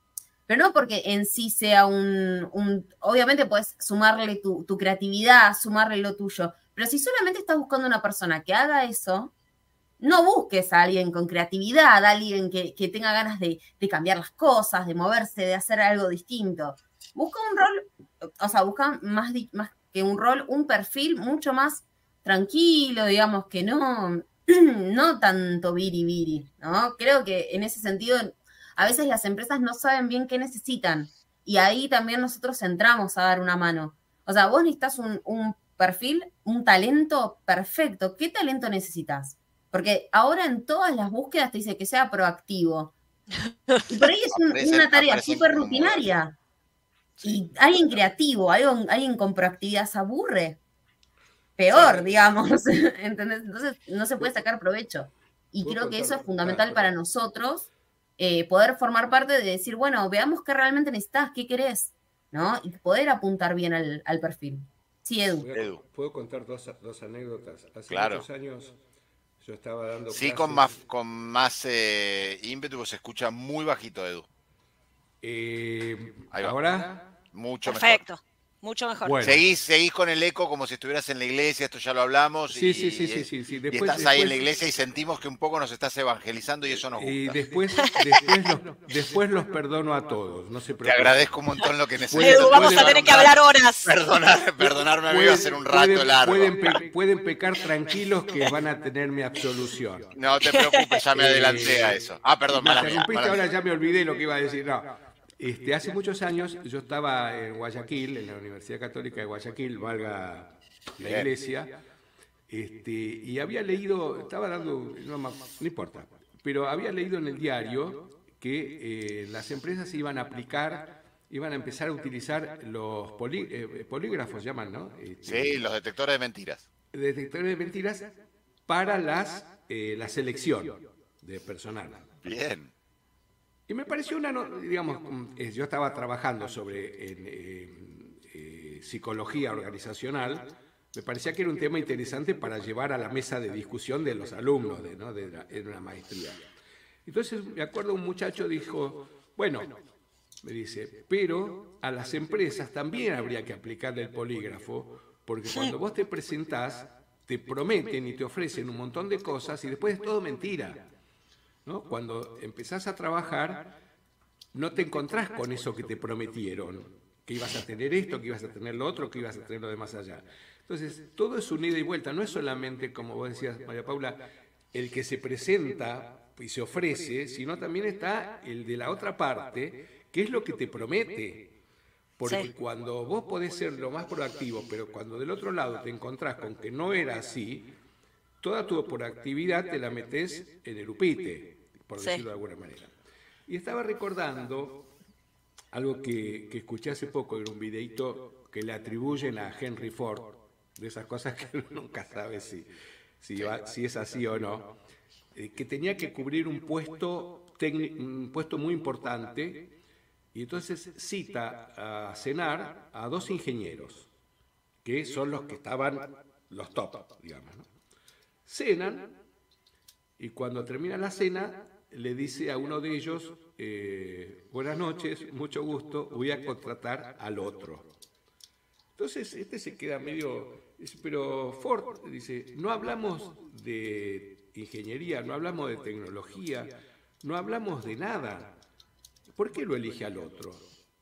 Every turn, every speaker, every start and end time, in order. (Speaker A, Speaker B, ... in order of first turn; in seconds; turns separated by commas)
Speaker A: 0.5-9.3, Speaker A: 10.0-42.9, Speaker B: 43.5-43.8, Speaker A: 43.9-46.4, Speaker C: 44.3-46.0, Speaker A: 47.2-50.6, Speaker A: 51.6-57.7, Speaker D: 51.7-52.3, Speaker D: 55.6-56.9, Speaker A: 58.2-65.5, Speaker D: 65.3-68.8, Speaker C: 65.5-65.8, Speaker C: 67.9-68.2, Speaker D: 69.4-70.8, Speaker C: 70.1-74.3, Speaker D: 75.2-77.1, Speaker C: 77.3-78.0, Speaker B: 77.7-79.3, Speaker D: 79.0-79.4, Speaker C: 79.2-87.4, Speaker D: 82.5-84.4, Speaker D: 86.9-91.4, Speaker C: 90.8-93.3, Speaker D: 92.1-93.3, Speaker B: 92.2-93.9, Speaker C: 93.8-96.8, Speaker D: 94.6-100.1, Speaker C: 100.1-103.4, Speaker B: 100.5-100.9, Speaker D: 101.1-111.8, Speaker C: 111.0-111.3, Speaker D: 112.5-125.7, Speaker C: 125.2-126.6, Speaker D: 126.9-128.1, Speaker D: 128.7-132.3, Speaker C: 132.2-132.7, Speaker D: 133.7-146.4, Speaker D: 147.1-149.8, Speaker D: 150.4-160.9, Speaker D: 161.6-163.8, Speaker D: 164.5-181.5, Speaker D: 182.2-187.7, Speaker D: 188.4-192.9, Speaker D: 193.5-194.9, Speaker D: 195.7-202.7, Speaker D: 203.2-204.8, Speaker D: 205.3-209.7, Speaker D: 210.3-214.1, Speaker D: 214.8-217.7, Speaker D: 218.4-219.2, Speaker D: 220.2-227.9, Speaker D: 228.9-238.6, Speaker D: 239.3-240.7